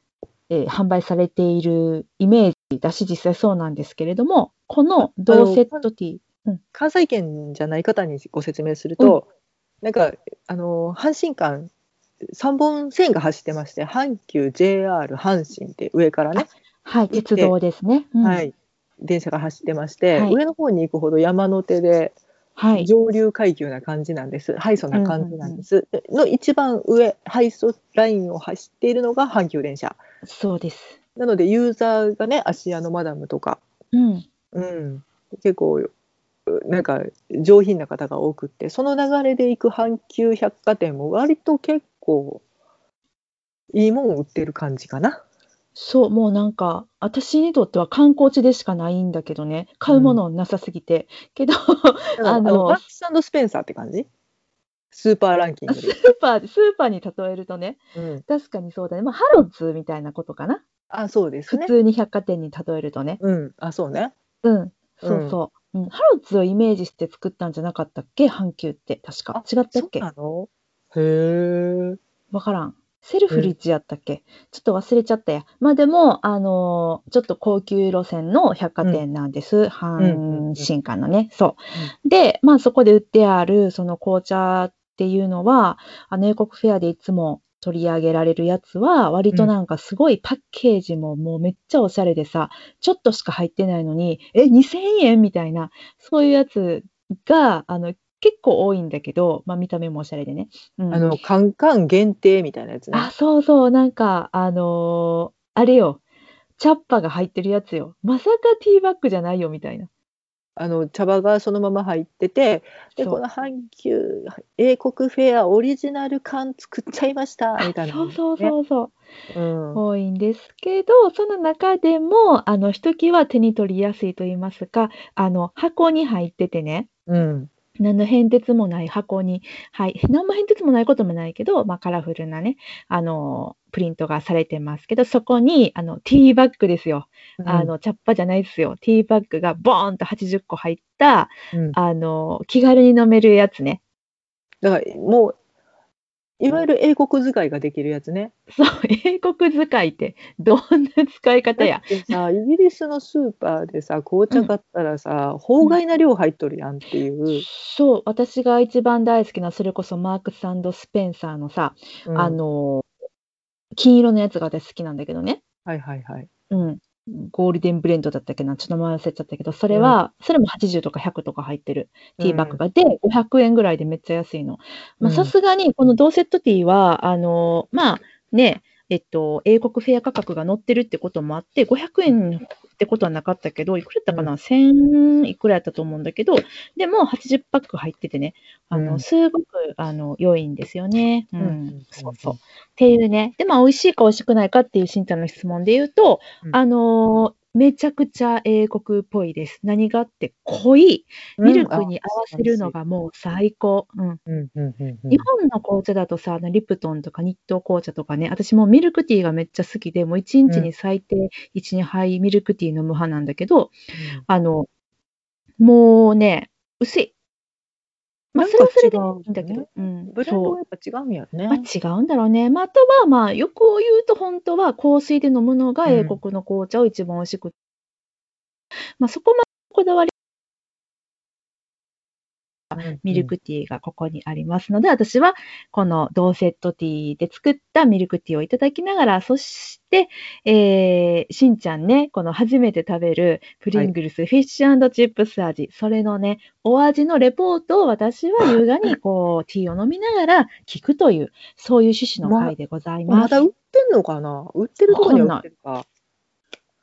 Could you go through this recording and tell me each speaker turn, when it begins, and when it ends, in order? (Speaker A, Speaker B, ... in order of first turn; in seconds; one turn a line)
Speaker A: 0.5-6.6
Speaker B: 5.0-5.8
Speaker B: 6.7-9.2
Speaker B: 9.8-11.7
Speaker B: 12.3-16.5
Speaker A: 16.4-18.4
Speaker B: 17.1-17.5
Speaker B: 18.2-22.2
Speaker A: 22.6-22.9
Speaker B: 22.8-30.0
Speaker A: 24.9-25.6
Speaker A: 30.2-31.0
Speaker B: 31.2-33.6
Speaker A: 33.9-34.3
Speaker B: 34.5-35.9
Speaker B: 36.5-42.4
Speaker B: 43.7-45.2
Speaker A: 45.8-52.8
Speaker B: 49.9-50.2
Speaker B: 52.2-54.1
Speaker B: 54.9-56.0
Speaker A: 55.7-60.6
Speaker B: 58.0-58.2
Speaker B: 60.9-61.7
Speaker A: 61.5-63.2
Speaker B: 63.2-64.1
Speaker A: 64.4-70.0
Speaker B: 65.0-65.4
Speaker B: 69.3-72.0
Speaker A: 72.3-101.2
Speaker B: 80.0-80.6
Speaker B: 100.9-103.1
Speaker A: 102.9-106.0
Speaker A: 106.6-109.9
Speaker B: 110.5-118.5
Speaker A: 113.0-113.2
Speaker A: 117.6-118.9
Speaker B: 119.3-119.8
Speaker A: 119.7-126.9
Speaker B: 127.1-127.5
Speaker A: 127.8-143.8
Speaker B: 137.4-137.7
Speaker B: 144.6-145.3
Speaker B: 146.4-148.3
Speaker A: 148.5-152.2
Speaker B: 151.6-157.4
Speaker A: 157.3-162.9
Speaker B: 162.1-162.4
Speaker A: 163.8-165.4
Speaker B: 165.7-166.3
Speaker A: 166.5-204.2
Speaker B: 169.7-170.0
Speaker B: 172.2-172.6
Speaker B: 175.0-175.3
Speaker B: 188.7-189.0
Speaker B: 191.4-192.4
Speaker B: 201.4-202.7
Speaker B: 204.3-205.3
Speaker A: 205.1-214.7
Speaker B: 213.9-214.2
Speaker A: 215.6-217.1
Speaker A: 218.3-220.6
Speaker B: 218.3-221.7
Speaker A: 221.5-227.5
Speaker B: 225.8-226.2
Speaker A: 229.0-230.1
Speaker A: 232.7-253.3
Speaker B: 232.8-233.3
Speaker B: 252.2-252.5
Speaker B: 253.1-255.8
Speaker A: 254.9-255.4